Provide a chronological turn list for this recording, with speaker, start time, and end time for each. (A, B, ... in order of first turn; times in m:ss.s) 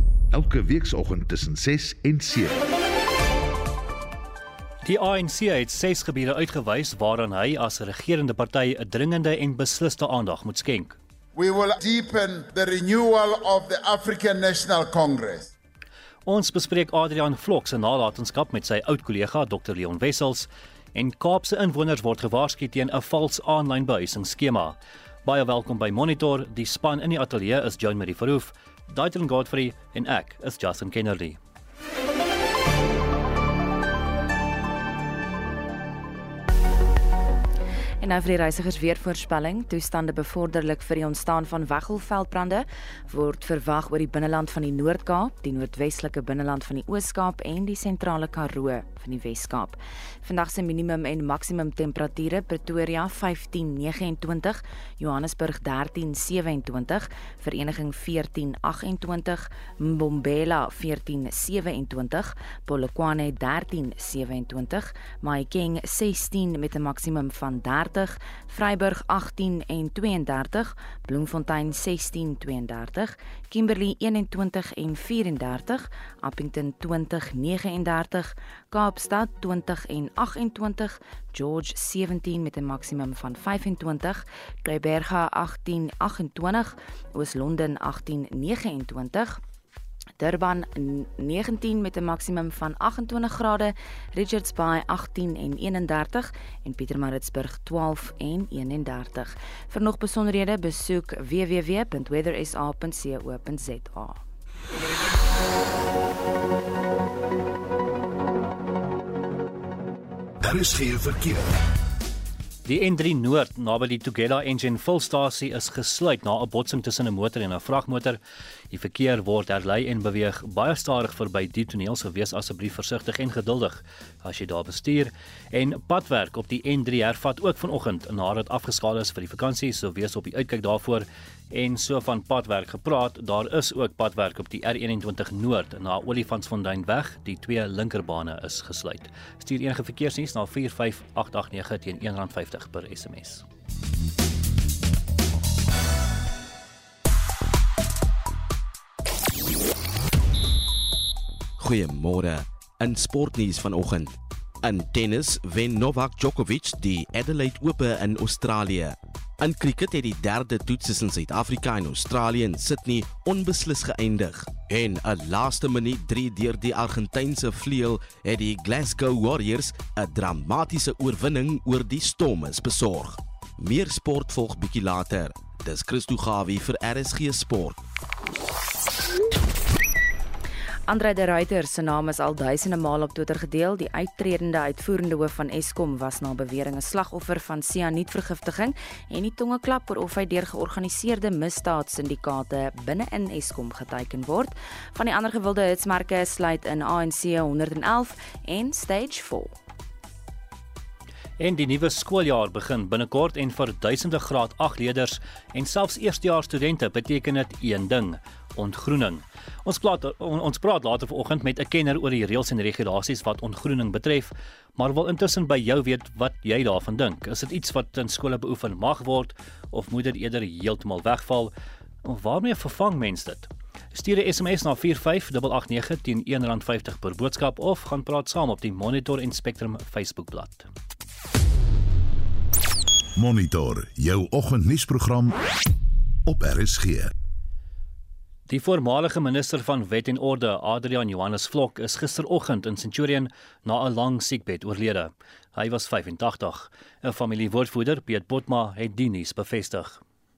0:00.3-0:02.6 A
0:04.8-0:11.0 B
0:11.3-0:15.5 C
0:16.2-0:31.4 B
0:38.0-1:29.4 D
1:30.2-1:44.2 D
1:50.4-1:51.5 A
1:52.6-1:58.2 B
1:58.7-2:23.4 B
2:31.6-2:57.8 E
3:00.9-3:19.5 D
3:21.4-3:41.5 B
3:42.0-3:50.7 B
3:53.2-3:55.4 A
3:56.2-3:57.1 A
3:58.5-4:10.0 B